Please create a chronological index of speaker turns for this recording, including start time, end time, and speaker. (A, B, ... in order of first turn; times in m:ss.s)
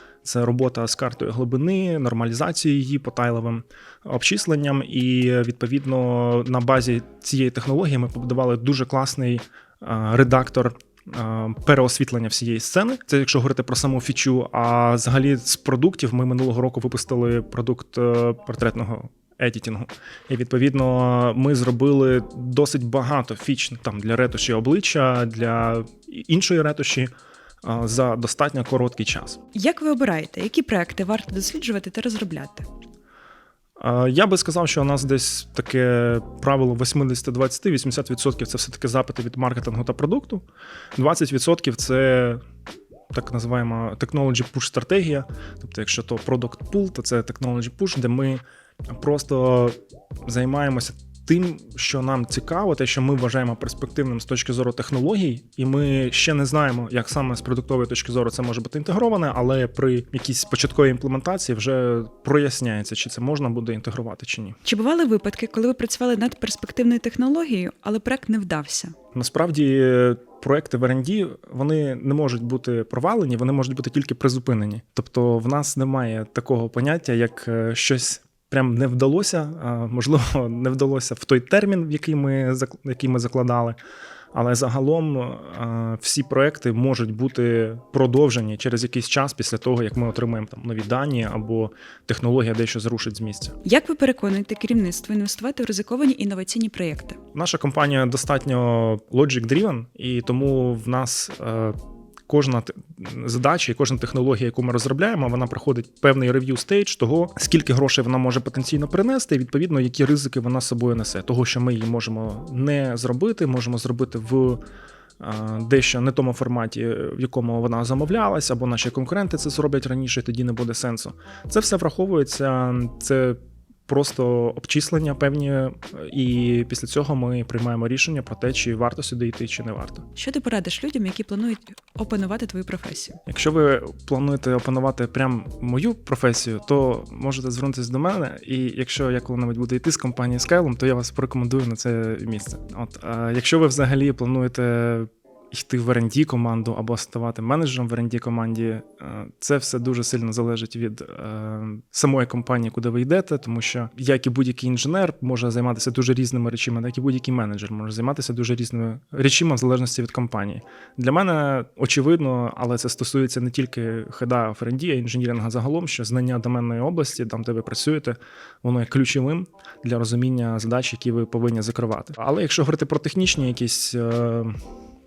0:00.2-0:27.1 A
0:27.6-0:29.4 A
0:29.5-0:32.7 B
0:33.8-0:40.4 A
0:41.0-0:42.4 A
0:43.1-1:04.6 A
1:04.6-1:09.0 B
1:09.1-1:23.8 A
1:24.3-1:33.6 A
1:33.6-1:37.2 B
1:37.3-1:41.8 A
1:42.3-1:54.6 A
1:55.2-2:10.1 A
2:10.2-2:13.2 B
2:13.3-2:54.6 A